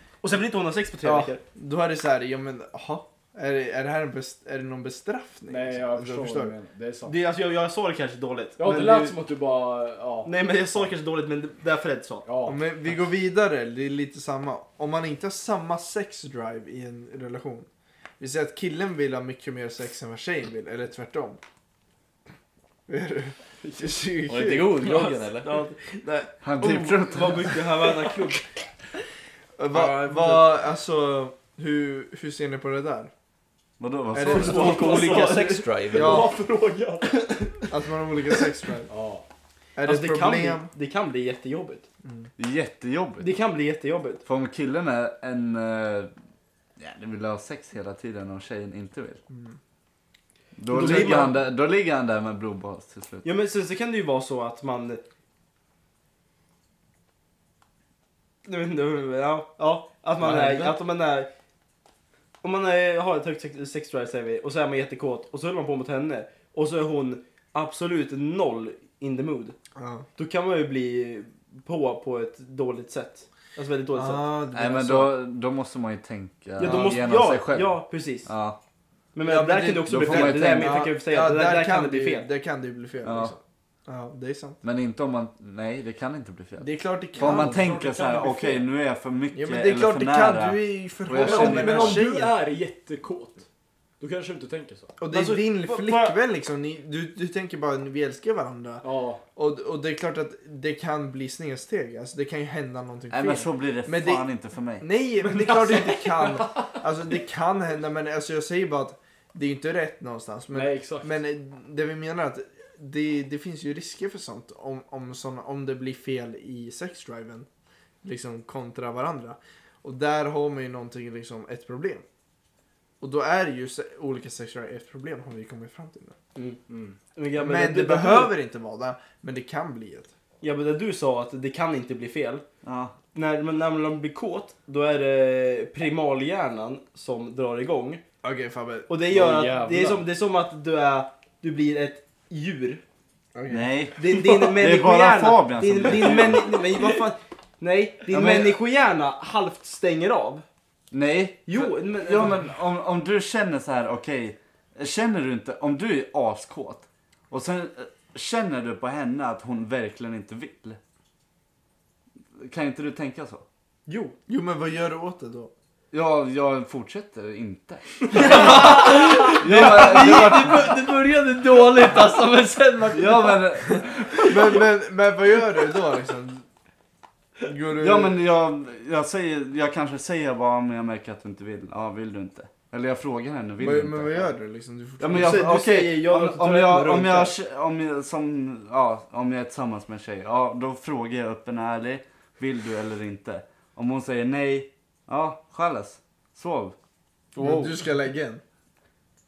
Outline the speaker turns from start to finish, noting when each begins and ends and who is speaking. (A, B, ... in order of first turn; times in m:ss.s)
0:00.2-0:01.4 A
0:01.0-0:06.5 B
0:05.5-0:07.2 C
0:07.0-0:09.1 A
0:08.6-0:10.9 C
0:10.2-0:12.2 A
0:12.2-0:13.0 C
0:12.4-0:21.4 B
0:22.9-0:25.0 B
0:23.6-0:24.0 C
0:24.2-0:25.6 D
0:25.4-0:28.4 A
0:26.4-0:27.6 E
0:29.6-0:33.1 B
0:29.7-0:30.4 A
0:33.8-0:34.8 E
0:34.1-0:35.2 B
0:34.3-0:36.3 D
0:34.3-0:37.4 C
0:34.4-0:35.6 A
0:35.9-0:36.3 B
0:37.2-0:37.6 A
0:37.7-0:38.9 B
0:38.9-0:39.2 C
0:39.8-0:40.7 B
0:39.8-0:41.8 A
0:42.0-0:42.3 B
0:42.4-0:43.3 E
0:43.2-0:44.2 A
0:44.2-0:46.1 E
0:46.8-0:49.2 E
0:49.3-0:49.6 B
0:50.6-0:53.3 E
0:50.7-0:51.4 A
0:53.2-0:55.0 A
0:58.4-1:01.3 A
1:00.2-1:00.7 B
1:02.4-1:09.6 A
1:09.8-1:10.0 B
1:10.2-1:14.3 A
1:13.9-1:15.1 B
1:14.5-1:18.6 E
1:16.6-1:18.3 A
1:19.1-1:22.3 A
1:19.2-1:24.6 B
1:19.9-1:20.8 E
1:23.0-1:23.3 E
1:24.6-1:32.0 E
1:26.6-1:27.7 B
1:27.2-1:28.6 C
1:29.3-1:32.3 B
1:31.1-1:33.4 C
1:34.0-1:34.9 C
1:35.0-1:44.3 B
1:35.1-1:36.2 A
1:38.8-1:39.2 C
1:43.1-1:44.8 E
1:44.8-1:57.5 B
1:45.2-1:46.5 C
1:45.4-1:45.9 A
1:50.5-1:51.2 C
1:58.0-2:02.0 B
2:03.0-2:06.1 B
2:06.3-2:06.6 A
2:06.7-2:07.0 C
2:07.1-2:08.3 A
2:07.4-2:10.1 B
2:10.4-2:12.4 A
2:12.6-2:12.9 E
2:13.1-2:18.0 A
2:18.2-2:18.9 B
2:18.9-2:22.8 A
2:19.1-2:20.0 C
2:23.3-2:23.7 B
2:23.5-2:26.5 E
2:24.0-2:30.4 A
2:28.1-2:28.6 E
2:30.9-2:40.8 E
2:31.4-2:32.5 A
2:42.3-2:43.4 E
2:43.9-2:44.2 A
2:44.3-2:45.5 B
2:45.9-2:50.7 E
2:48.1-2:53.6 A
2:48.2-2:48.7 B
2:49.5-2:50.4 D
2:52.9-2:54.2 E
2:54.2-2:56.4 B
2:57.4-2:58.2 B
2:57.7-3:04.3 E
3:03.6-3:05.6 B
3:05.0-3:16.7 E
3:05.1-3:07.4 A
3:17.4-3:17.7 A
3:17.4-3:18.4 B